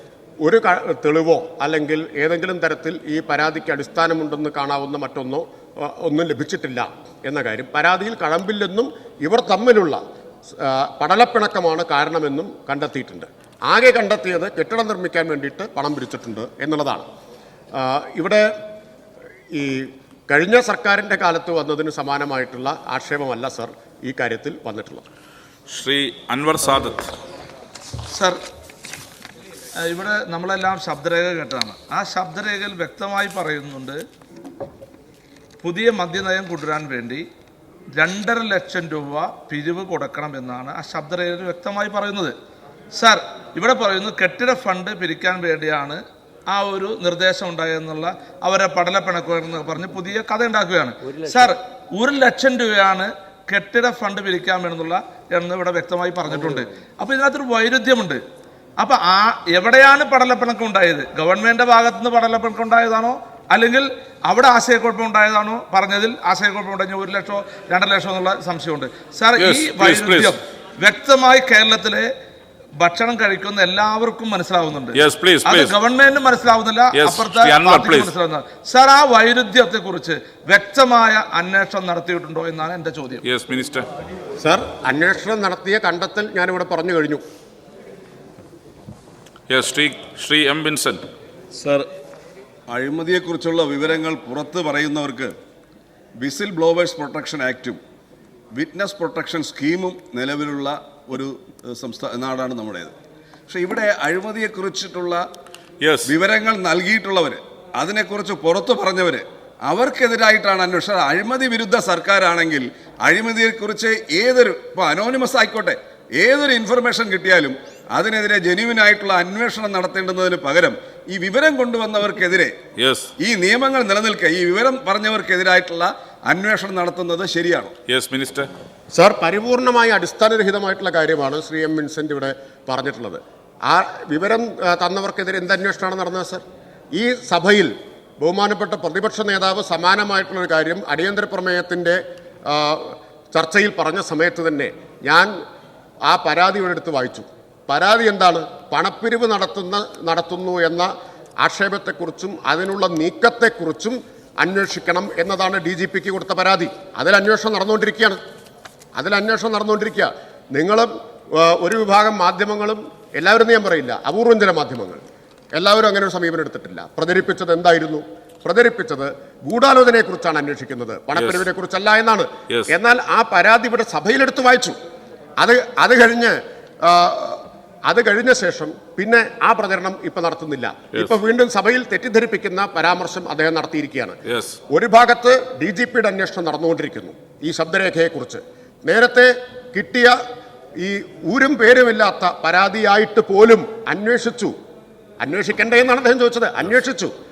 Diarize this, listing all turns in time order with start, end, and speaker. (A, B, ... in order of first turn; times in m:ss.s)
0:00.4-0:17.0 A
0:17.7-0:18.5 A
0:19.5-0:25.0 A
0:25.7-0:27.1 B
0:28.1-0:28.4 C
0:29.8-0:34.0 C
0:35.6-0:37.2 C
0:37.9-0:42.3 C
0:42.9-0:58.2 C
0:58.8-1:12.1 C
1:09.4-1:10.3 B
1:12.8-1:23.2 C
1:14.9-1:15.7 B
1:16.9-1:18.1 B
1:23.2-1:23.8 B
1:24.4-1:27.2 A
1:29.5-1:31.9 B
1:32.7-1:35.3 D
1:36.2-1:37.8 D
1:38.5-1:42.9 D
1:43.5-1:45.2 D
1:45.8-1:46.1 B
1:46.1-2:02.6 D
2:02.8-2:03.1 B
2:03.2-2:07.7 D
2:07.9-2:08.5 B
2:08.9-2:16.4 A
2:16.9-2:25.3 A
2:26.0-2:38.2 A
2:39.0-2:45.0 A
2:45.5-2:54.8 A
2:51.2-2:51.4 B
2:55.4-3:10.2 A
3:04.3-3:04.6 B
3:10.8-3:14.5 A
3:15.2-3:17.1 A